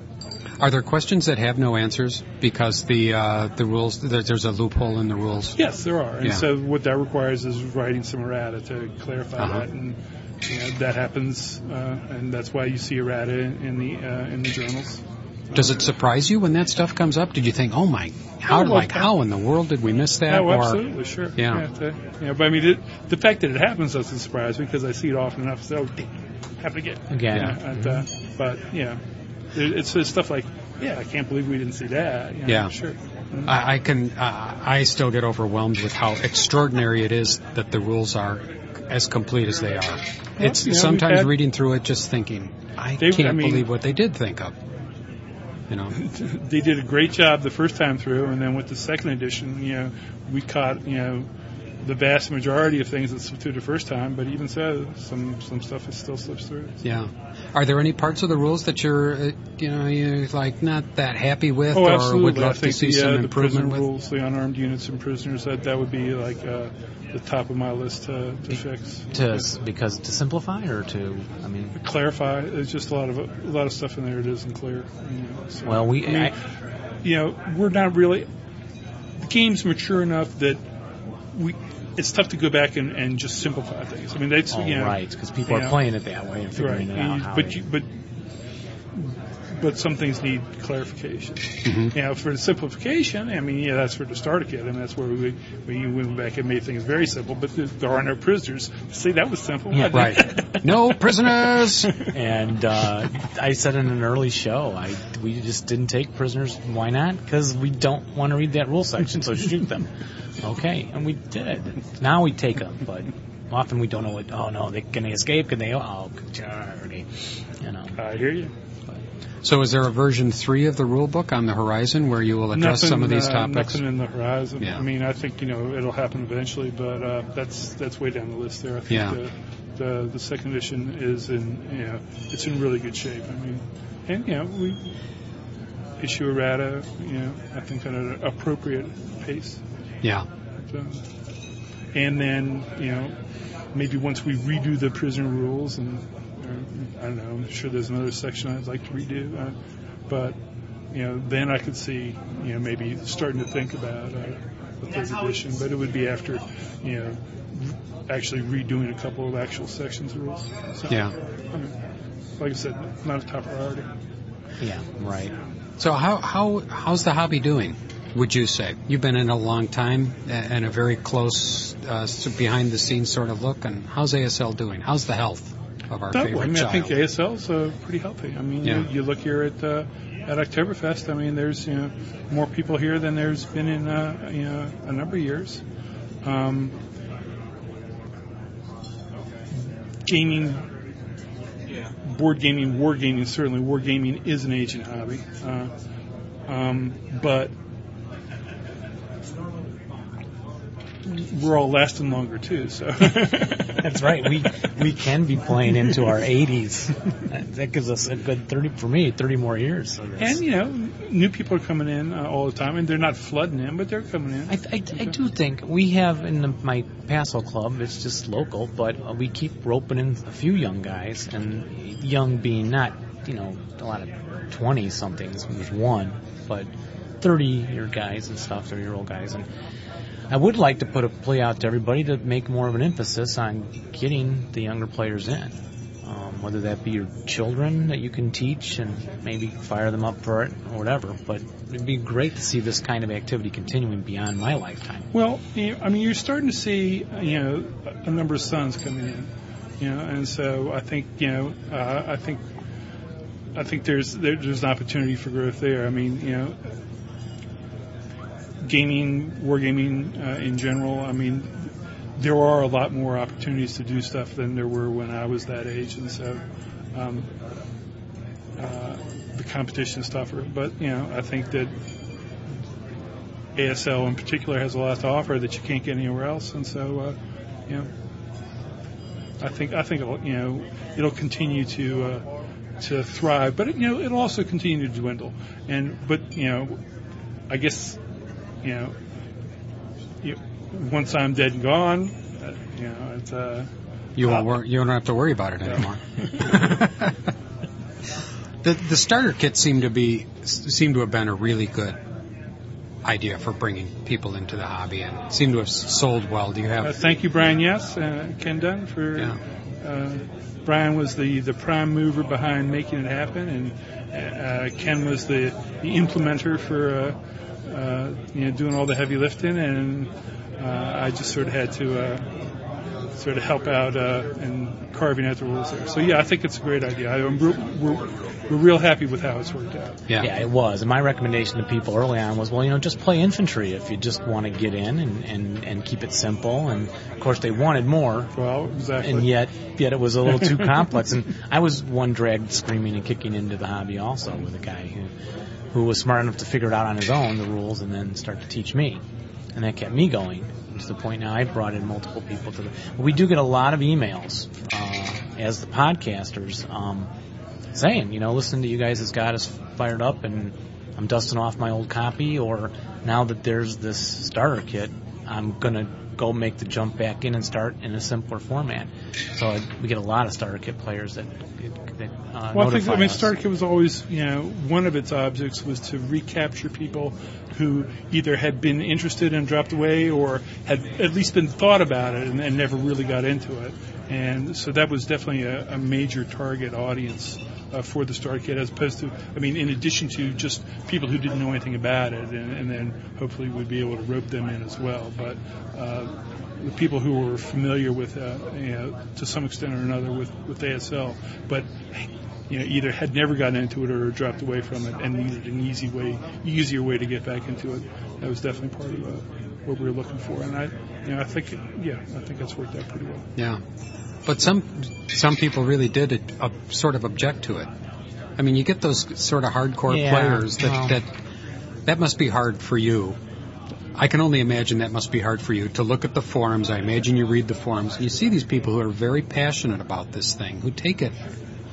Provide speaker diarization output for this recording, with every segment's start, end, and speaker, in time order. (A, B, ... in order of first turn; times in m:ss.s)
0:00.6-0:05.5 A
0:05.6-0:15.7 B
0:09.4-0:09.6 A
0:15.5-0:20.8 A
0:18.5-0:19.1 B
0:20.3-0:29.0 B
0:21.4-0:21.6 A
0:27.1-0:28.0 C
0:29.5-0:33.5 B
0:32.5-0:32.7 A
0:33.4-0:44.6 A
0:40.4-0:41.3 B
0:43.0-0:43.7 B
0:45.7-0:45.9 A
0:45.9-0:51.3 B
0:51.8-0:56.8 B
0:56.8-1:03.8 A
1:01.7-1:09.4 B
1:09.1-1:11.8 C
1:11.8-1:16.4 B
1:15.6-1:16.3 C
1:17.0-1:18.3 B
1:19.2-1:20.6 B
1:21.3-1:25.8 B
1:24.5-1:27.6 C
1:26.6-1:27.9 B
1:28.9-1:40.6 B
1:31.6-1:31.9 A
1:39.7-1:40.3 C
1:39.9-1:41.9 A
1:42.1-1:58.0 C
1:58.0-1:58.5 B
1:59.4-2:03.8 A
2:02.5-2:14.9 B
2:08.9-2:09.2 A
2:16.0-2:19.6 B
2:20.7-2:21.0 B
2:21.9-2:23.2 B
2:23.7-2:29.5 B
2:30.1-2:30.4 B
2:30.9-2:41.7 B
2:40.9-2:41.1 A
2:42.4-2:43.9 B
2:44.6-2:45.3 C
2:45.8-2:57.0 A
2:56.1-3:05.6 B
2:58.6-2:58.9 A
3:06.2-3:06.8 B
3:10.0-3:10.7 B
3:12.0-3:15.7 B
3:16.5-3:17.5 B
3:21.0-3:23.9 B
3:23.7-3:30.4 C
3:30.2-3:35.1 B
3:34.5-3:46.7 C
3:47.2-3:49.5 C
3:50.3-4:05.1 C
4:05.1-4:12.4 B
4:13.5-4:16.6 B
4:18.6-4:26.4 B
4:26.9-4:27.3 B
4:28.6-4:31.7 B
4:33.6-4:37.2 B
4:39.4-4:42.2 B
4:42.8-4:46.8 B
4:47.5-4:48.0 B
4:48.6-4:49.0 B
4:50.2-4:53.7 B
4:54.2-4:57.2 A
4:58.6-5:02.0 A
5:03.0-5:07.0 A
5:06.8-5:22.3 B
5:23.2-5:30.0 B
5:30.2-5:38.3 C
5:38.3-5:39.3 B
5:39.0-5:45.1 C
5:45.7-5:49.0 C
5:49.5-5:57.1 C
5:57.7-6:13.3 C
6:12.5-6:53.3 B
6:53.4-6:53.6 A
6:54.2-6:57.7 A
6:58.4-7:01.1 A
6:59.9-7:01.0 C
7:01.8-7:03.2 A
7:03.9-7:11.2 A